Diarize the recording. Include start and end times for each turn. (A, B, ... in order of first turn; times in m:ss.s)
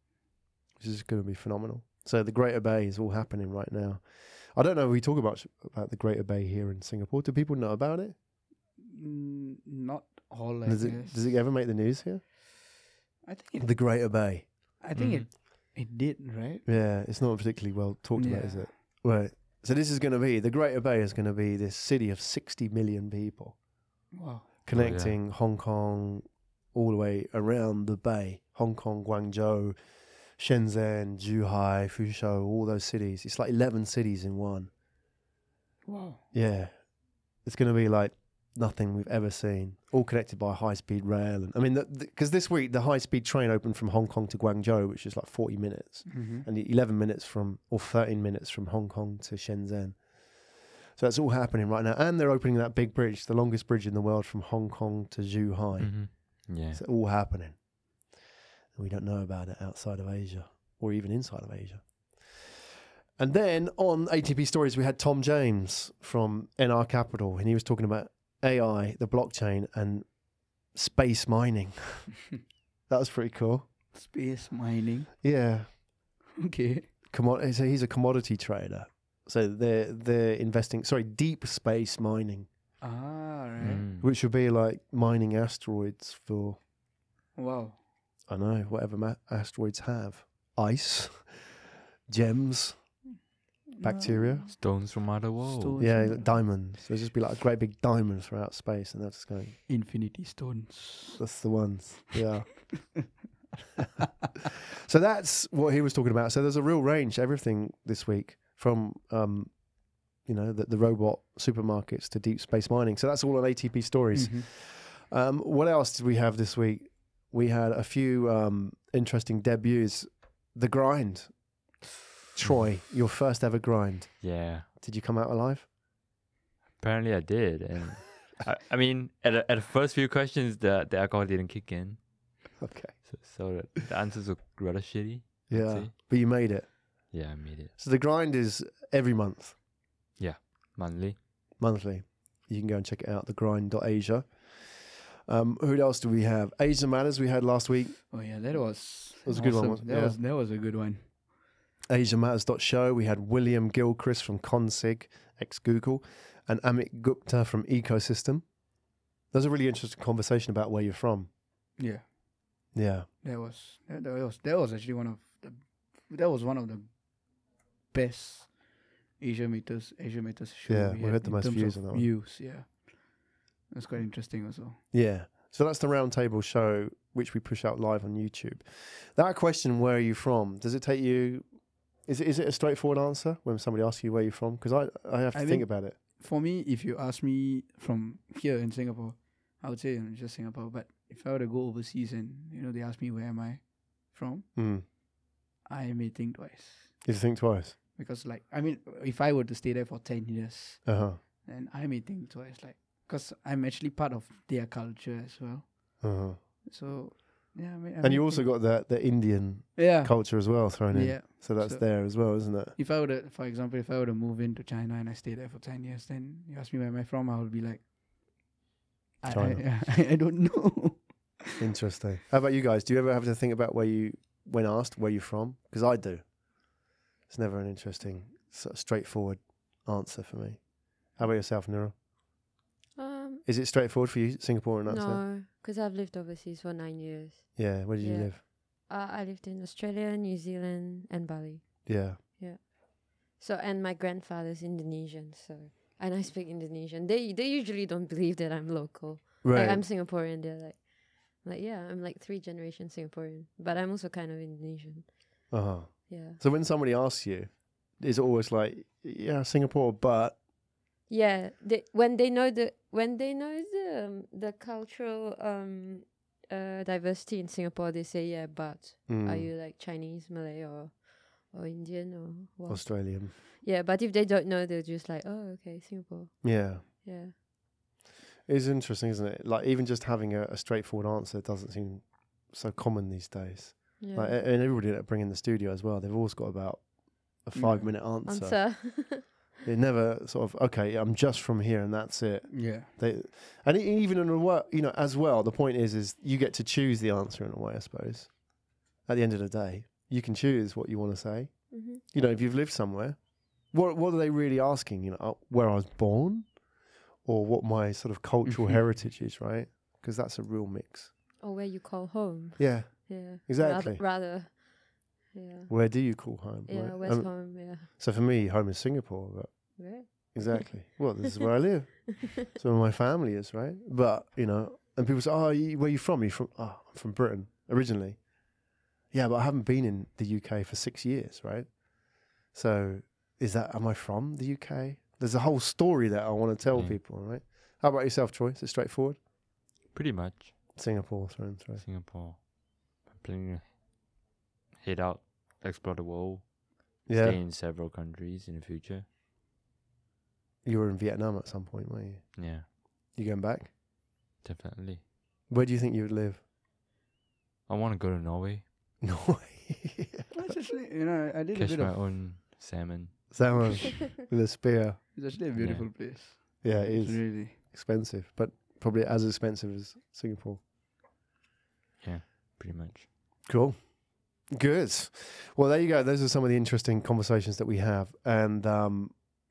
0:00.8-0:04.0 A
0:04.5-0:08.1 A
0:08.8-0:11.3 B
0:10.6-0:12.2 A
0:13.2-0:13.8 B
0:13.6-0:14.5 A
0:14.8-0:16.6 B
0:14.9-0:15.3 C
0:16.6-0:23.6 A
0:18.2-0:18.7 B
0:24.1-0:24.5 B
0:24.6-0:29.7 A
0:24.7-0:25.2 C
0:30.4-0:34.7 A
0:35.8-0:36.2 B
0:36.3-0:36.7 A
0:37.4-0:50.0 A
0:46.1-0:46.4 B
0:51.0-0:56.1 A
0:55.8-0:56.8 C
0:56.7-0:57.6 A
0:58.7-1:01.8 A
1:03.2-1:10.0 A
1:10.7-1:12.1 A
1:12.9-1:13.6 A
1:13.9-1:15.1 B
1:15.2-1:15.7 A
1:16.4-1:16.9 B
1:17.1-1:22.5 A
1:22.8-1:23.8 B
1:23.6-1:24.0 C
1:24.0-1:26.6 A
1:27.4-1:27.8 B
1:28.3-1:31.4 A
1:32.1-1:32.8 A
1:33.8-1:34.6 B
1:33.8-1:34.5 A
1:34.5-1:35.8 C
1:35.4-1:36.4 B
1:35.8-1:39.6 A
1:39.7-1:41.2 B
1:41.2-1:42.7 A
1:44.8-1:49.5 A
1:50.2-2:01.3 A
1:54.1-1:54.5 B
2:02.3-2:05.6 A
2:04.2-2:04.7 C
2:06.8-2:12.0 C
2:12.6-2:13.1 A
2:13.0-2:15.9 C
2:15.5-2:16.7 A
2:17.1-2:17.7 C
2:17.8-2:19.6 A
2:20.2-2:21.2 C
2:21.6-2:24.5 A
2:25.3-2:28.0 A
2:28.1-2:31.0 B
2:29.2-2:30.2 A
2:31.9-2:38.4 A
2:39.3-2:41.3 A
2:41.8-2:42.0 B
2:42.7-2:43.1 A
2:43.2-2:46.8 B
2:47.9-2:48.6 B
2:49.2-2:53.2 B
2:50.7-2:52.1 A
2:53.7-2:54.8 B
2:54.9-3:01.4 A
3:02.0-3:06.0 A
3:05.3-3:14.4 B
3:14.6-3:14.8 A
3:15.6-3:16.9 B
3:17.0-3:17.7 A
3:18.0-3:26.0 B
3:20.8-3:21.2 A
3:26.0-3:26.4 A
3:26.7-3:28.5 B
3:28.0-3:32.7 A
3:29.8-3:37.8 B
3:39.2-3:41.5 B
3:39.3-3:39.6 A
3:41.6-3:46.2 A
3:47.3-3:50.6 A
3:51.2-3:51.9 A
3:53.0-3:53.4 D
3:53.4-3:55.2 A
3:54.9-4:02.7 D
3:57.6-3:58.4 A
4:01.8-4:02.2 A
4:03.3-4:10.9 D
4:09.4-4:09.8 A
4:11.4-4:15.2 D
4:15.5-4:20.4 A
4:16.1-4:16.4 D
4:21.1-4:37.3 D
4:29.1-4:29.5 A
4:32.7-4:33.4 A
4:36.4-4:36.8 A
4:38.5-4:46.9 A
4:44.0-4:44.4 D
4:47.4-4:48.7 A
4:47.5-4:47.9 B
4:48.2-4:49.5 D
4:49.6-4:58.3 A
4:52.5-4:52.9 B
4:59.0-5:01.5 A
5:01.7-5:02.0 D
5:02.1-5:03.2 A
5:03.7-5:06.4 A
5:07.2-5:11.1 A
5:08.4-5:08.8 B
5:11.4-5:14.6 D
5:12.6-5:14.0 A
5:15.3-5:15.7 D
5:15.7-5:28.2 A
5:16.7-5:17.9 D
5:19.8-5:20.6 D
5:22.1-5:22.5 D
5:29.1-5:31.7 A
5:32.5-5:39.2 A
5:36.7-5:37.0 C
5:39.9-5:40.5 C
5:40.7-5:41.8 A
5:41.8-5:42.4 C
5:43.0-5:43.7 C
5:44.8-5:46.5 C
5:47.0-5:49.0 C
5:47.1-5:47.4 A
5:50.6-5:52.4 A
5:52.4-5:52.6 C
5:53.1-5:53.7 A
5:54.4-5:55.0 C
5:55.5-5:56.4 A
5:57.7-5:58.6 C
5:59.0-6:00.5 A
6:00.3-6:02.1 B
6:01.5-6:03.8 C
6:03.3-6:05.0 A
6:05.1-6:07.6 B
6:05.6-6:05.9 C
6:06.6-6:10.6 A
6:12.0-6:13.1 C
6:13.4-6:13.8 A
6:14.5-6:19.1 A